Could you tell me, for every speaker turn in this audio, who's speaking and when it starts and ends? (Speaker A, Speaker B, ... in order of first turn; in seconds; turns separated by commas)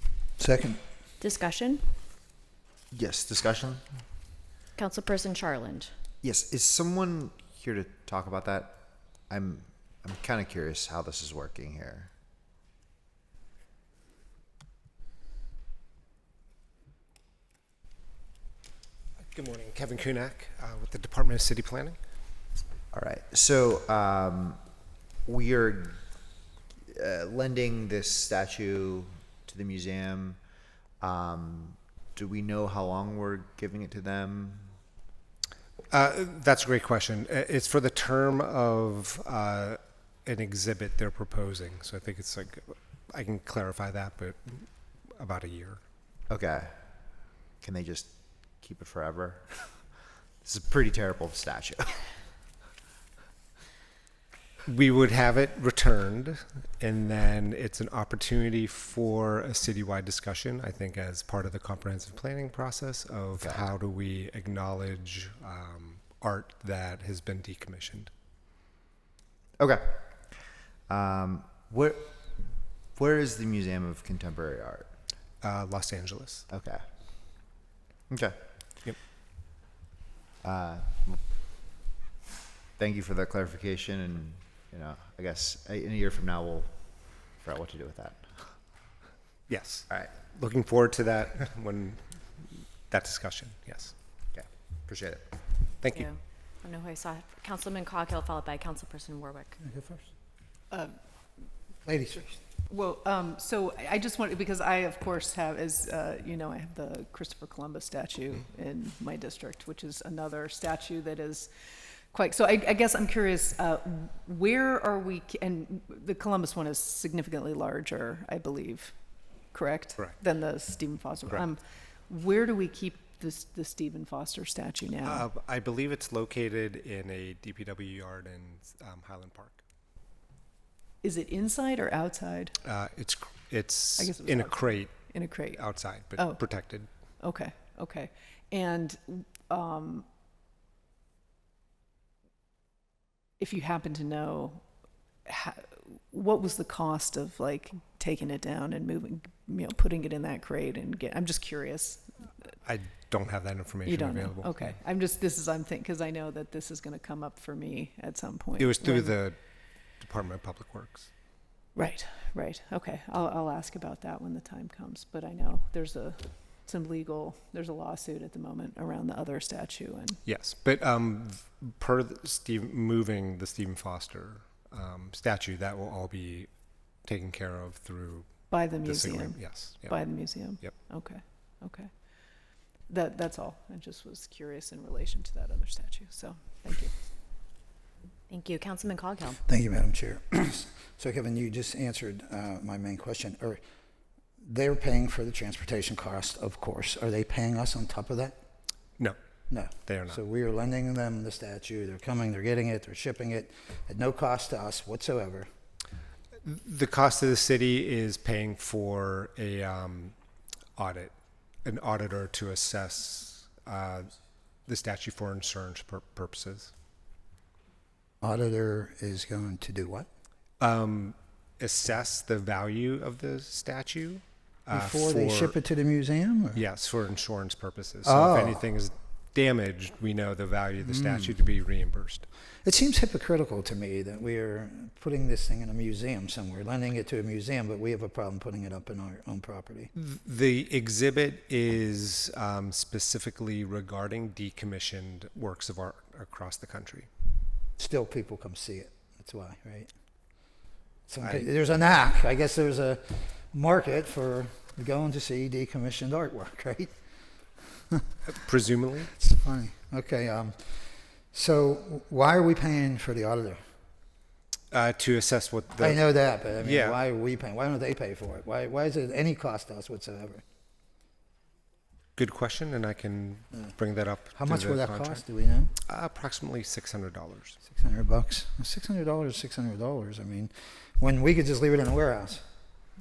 Speaker A: 0.4-0.8, Speaker B: 1.2-1.9, Speaker C: 2.9-3.8, Speaker B: 4.8-5.9, Speaker C: 6.2-12.1, Speaker D: 19.2-22.0, Speaker C: 22.9-24.6, Speaker C: 25.3-26.0, Speaker C: 26.9-30.4, Speaker C: 31.0-34.8, Speaker D: 35.9-45.8, Speaker C: 46.3-46.7, Speaker C: 47.6-49.9, Speaker C: 50.4-52.1, Speaker D: 54.7-68.1, Speaker C: 63.4-63.7, Speaker C: 69.6-74.9, Speaker D: 75.4-76.5, Speaker C: 76.5-76.8, Speaker C: 78.1-78.4, Speaker C: 80.4-81.2, Speaker C: 82.8-88.5, Speaker D: 89.5-92.0, Speaker D: 92.5-93.9, Speaker C: 94.3-95.4, Speaker D: 95.8-96.1, Speaker B: 95.9-99.6, Speaker A: 99.6-100.1, Speaker A: 101.8-102.4, Speaker E: 102.7-111.5, Speaker E: 112.1-119.0, Speaker E: 119.5-125.3, Speaker D: 125.0-129.6, Speaker E: 131.0-132.6, Speaker D: 132.6-136.9, Speaker E: 134.0-136.5, Speaker E: 137.2-140.1, Speaker E: 143.4-144.6, Speaker E: 145.3-152.4, Speaker D: 152.7-154.8, Speaker E: 153.8-159.1, Speaker D: 158.6-159.4, Speaker D: 160.0-161.1, Speaker E: 161.8-170.2, Speaker D: 170.2-176.5, Speaker D: 177.1-180.8, Speaker E: 178.5-181.9, Speaker E: 182.9-186.9, Speaker B: 188.3-189.4, Speaker A: 189.5-193.6, Speaker A: 194.4-198.3, Speaker A: 199.5-205.5, Speaker D: 199.9-200.2, Speaker D: 206.4-210.2, Speaker D: 210.8-211.1, Speaker D: 211.7-214.1, Speaker D: 214.7-216.7, Speaker A: 218.2-220.1, Speaker D: 220.6-225.6, Speaker A: 224.7-226.6, Speaker D: 226.5-232.3, Speaker A: 228.0-228.6, Speaker A: 232.7-239.9, Speaker D: 239.9-247.1, Speaker A: 247.8-249.9, Speaker A: 251.1-256.9, Speaker D: 258.3-259.1, Speaker A: 259.2-263.6, Speaker D: 264.7-267.0, Speaker A: 265.8-270.4, Speaker D: 272.2-275.2, Speaker A: 274.4-275.7, Speaker D: 275.9-277.6, Speaker A: 277.7-282.4